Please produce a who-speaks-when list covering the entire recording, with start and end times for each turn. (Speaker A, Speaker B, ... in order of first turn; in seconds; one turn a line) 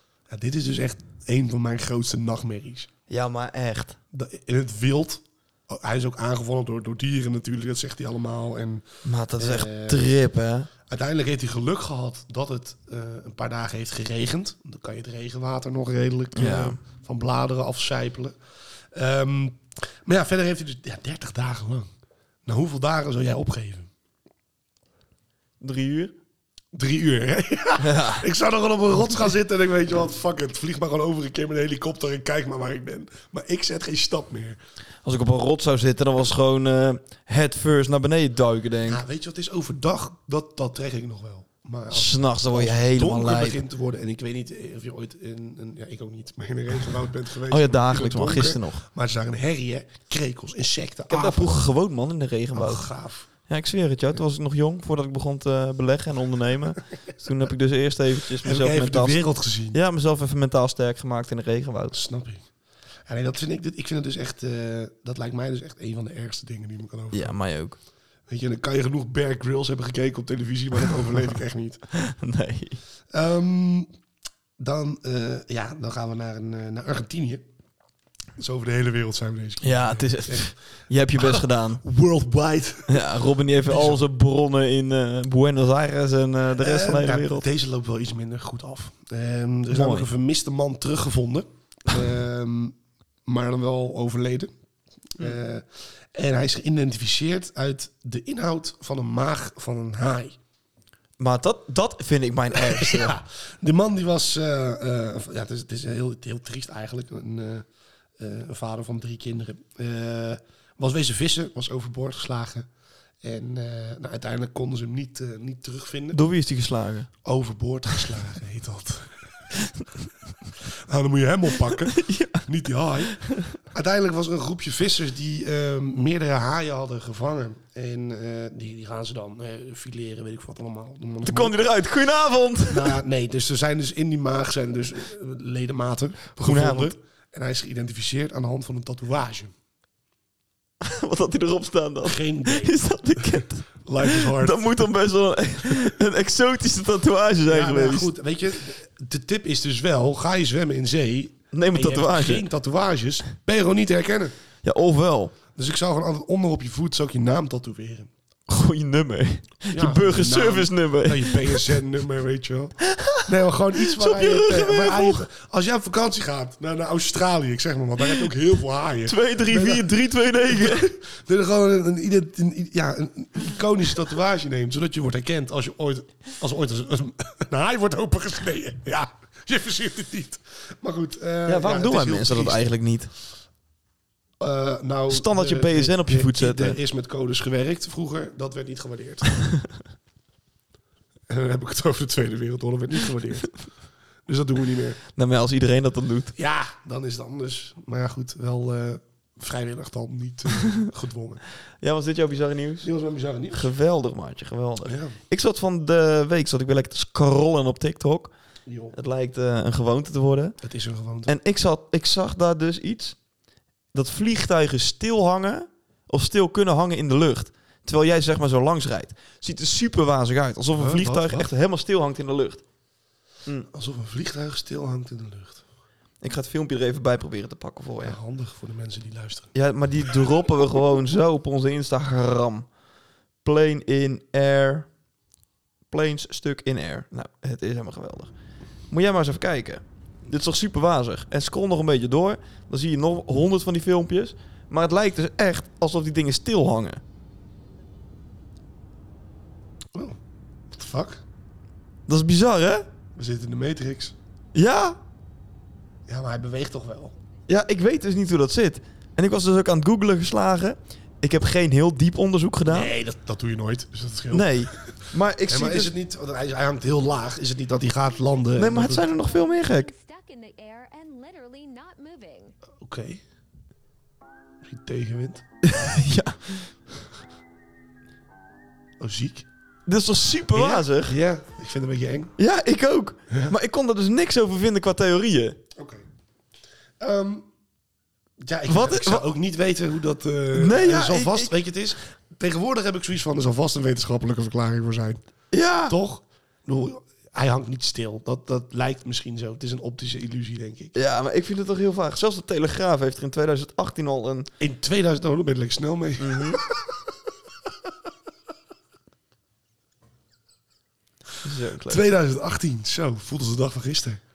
Speaker A: 0.3-2.9
Speaker B: 3.1-4.0
Speaker A: 4.1-8.8
Speaker B: 9.0-10.7
Speaker A: 9.4-10.1
Speaker A: 10.9-18.4
Speaker B: 16.4-16.8
Speaker A: 18.9-21.9
Speaker A: 22.5-23.9
Speaker B: 25.6-26.1
Speaker A: 26.7-34.6
Speaker B: 27.8-28.3
Speaker B: 35.0-39.0
Speaker A: 38.9-51.6
Speaker B: 41.9-43.6
Speaker B: 47.5-48.8
Speaker B: 51.1-59.2
Speaker A: 52.5-53.3
Speaker A: 58.4-59.8
Speaker B: 59.7-62.0
Speaker A: 61.9-62.5
Speaker A: 63.1-67.3
Speaker B: 67.1-67.8
Speaker A: 68.3-71.8
Speaker B: 71.9-72.8
Speaker A: 73.1-73.9
Speaker A: 74.6-77.4
Speaker A: 78.4-80.6
Speaker B: 79.6-81.8
Speaker A: 81.2-83.1
Speaker B: 82.9-87.5
Speaker A: 83.7-84.0
Speaker A: 86.6-94.5
Speaker B: 89.7-90.1
Speaker A: 95.2-100.4
Speaker B: 101.2-103.2
Speaker A: 102.5-107.7
Speaker A: 108.2-112.7
Speaker A: 113.2-116.2
Speaker B: 116.1-117.1
Speaker A: 117.2-119.3
Speaker A: 120.9-131.6
Speaker B: 121.8-122.5
Speaker B: 123.1-123.6
Speaker B: 131.2-133.0
Speaker A: 132.7-139.5
Speaker B: 136.4-136.9
Speaker B: 140.8-148.1
Speaker A: 142.1-142.8
Speaker A: 143.8-144.9
Speaker A: 147.5-154.3
Speaker B: 151.5-152.5
Speaker B: 154.6-155.3
Speaker A: 155.6-158.1
Speaker B: 158.5-161.8
Speaker A: 159.7-169.9
Speaker B: 162.8-165.3
Speaker B: 169.1-170.9
Speaker A: 170.5-182.7
Speaker B: 181.5-183.1
Speaker A: 184.4-189.3
Speaker B: 185.1-186.8
Speaker A: 191.3-193.6
Speaker A: 194.3-195.0
Speaker B: 195.1-196.3
Speaker A: 196.4-201.4
Speaker B: 201.8-202.9
Speaker A: 202.8-203.7
Speaker B: 203.5-208.3
Speaker A: 204.8-205.2
Speaker A: 208.7-208.9
Speaker B: 208.9-210.6
Speaker A: 210.6-211.3
Speaker B: 211.3-213.2
Speaker B: 213.9-222.6
Speaker A: 220.8-221.5
Speaker A: 223.7-225.6
Speaker B: 226.2-228.2
Speaker A: 228.0-229.5
Speaker B: 229.5-232.7
Speaker B: 233.4-234.9
Speaker B: 235.9-238.3
Speaker B: 238.9-247.0
Speaker A: 250.7-251.2
Speaker B: 252.1-252.9
Speaker A: 253.2-254.2
Speaker B: 254.6-255.0
Speaker A: 256.1-257.2
Speaker B: 257.5-262.9
Speaker A: 262.7-264.9
Speaker B: 264.3-265.9
Speaker A: 265.5-269.1
Speaker B: 268.6-269.9
Speaker C: 269.0-272.6
Speaker A: 272.8-273.2
Speaker A: 274.6-275.4
Speaker B: 275.6-276.7
Speaker A: 279.0-279.5
Speaker B: 279.9-281.1
Speaker A: 280.5-282.4
Speaker B: 282.4-285.6
Speaker A: 285.8-286.1
Speaker A: 287.0-287.5
Speaker A: 288.4-295.2
Speaker B: 288.7-289.3
Speaker B: 290.5-291.5
Speaker B: 295.5-296.0
Speaker A: 295.9-300.9
Speaker B: 300.9-304.5
Speaker A: 304.6-306.7
Speaker B: 306.2-306.6
Speaker B: 311.4-312.0
Speaker A: 311.9-314.2